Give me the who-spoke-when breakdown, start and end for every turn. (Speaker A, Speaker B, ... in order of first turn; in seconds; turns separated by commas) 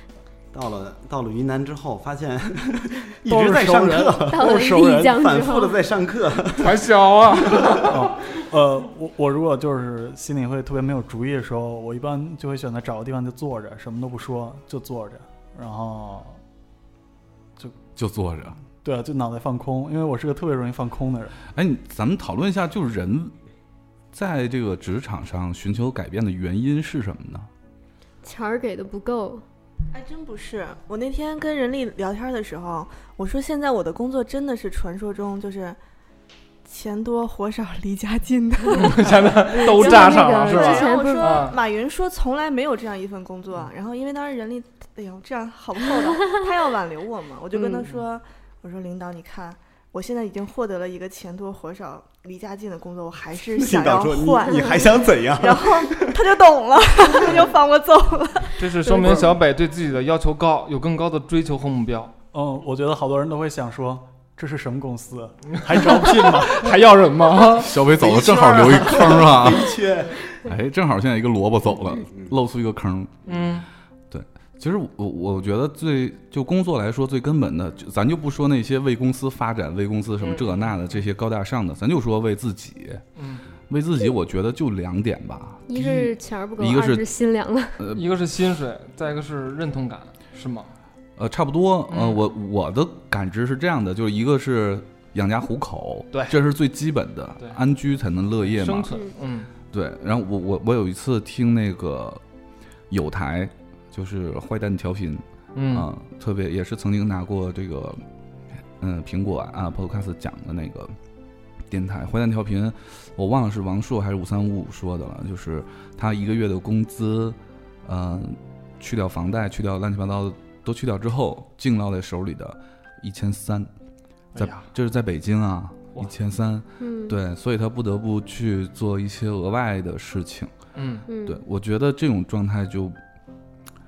Speaker A: 0.5-6.8, Speaker B: 3.2-5.2, Speaker C: 4.3-5.8, Speaker D: 6.6-8.3, Speaker A: 7.5-7.8, Speaker B: 7.8-16.4, Speaker E: 18.0-18.6, Speaker B: 18.8-21.4, Speaker E: 21.5-23.3, Speaker E: 24.1-27.5, Speaker C: 28.2-29.4, Speaker F: 29.9-35.8, Speaker F: 36.6-58.6, Speaker D: 38.7-41.6, Speaker C: 39.5-41.5, Speaker C: 47.5-47.8, Speaker A: 53.4-56.2, Speaker D: 58.6-62.1, Speaker C: 58.9-59.3, Speaker B: 62.3-66.7, Speaker D: 65.7-67.8, Speaker E: 67.6-69.8, Speaker A: 67.8-70.5, Speaker E: 70.4-73.4, Speaker D: 73.3-73.7, Speaker E: 74.1-83.0, Speaker D: 80.2-81.0, Speaker D: 83.2-83.4, Speaker E: 83.7-87.0, Speaker C: 85.7-87.8, Speaker E: 87.8-88.1, Speaker D: 87.9-90.7, Speaker E: 91.2-99.0, Speaker D: 91.9-92.2, Speaker D: 96.1-96.4, Speaker D: 98.4-99.5, Speaker E: 99.7-102.2, Speaker E: 102.9-108.0, Speaker D: 105.5-105.9, Speaker E: 108.8-111.0, Speaker E: 111.7-123.7, Speaker E: 124.3-130.5, Speaker D: 124.3-124.7, Speaker C: 126.8-127.2, Speaker D: 130.8-131.1, Speaker C: 131.1-131.4, Speaker E: 131.2-133.0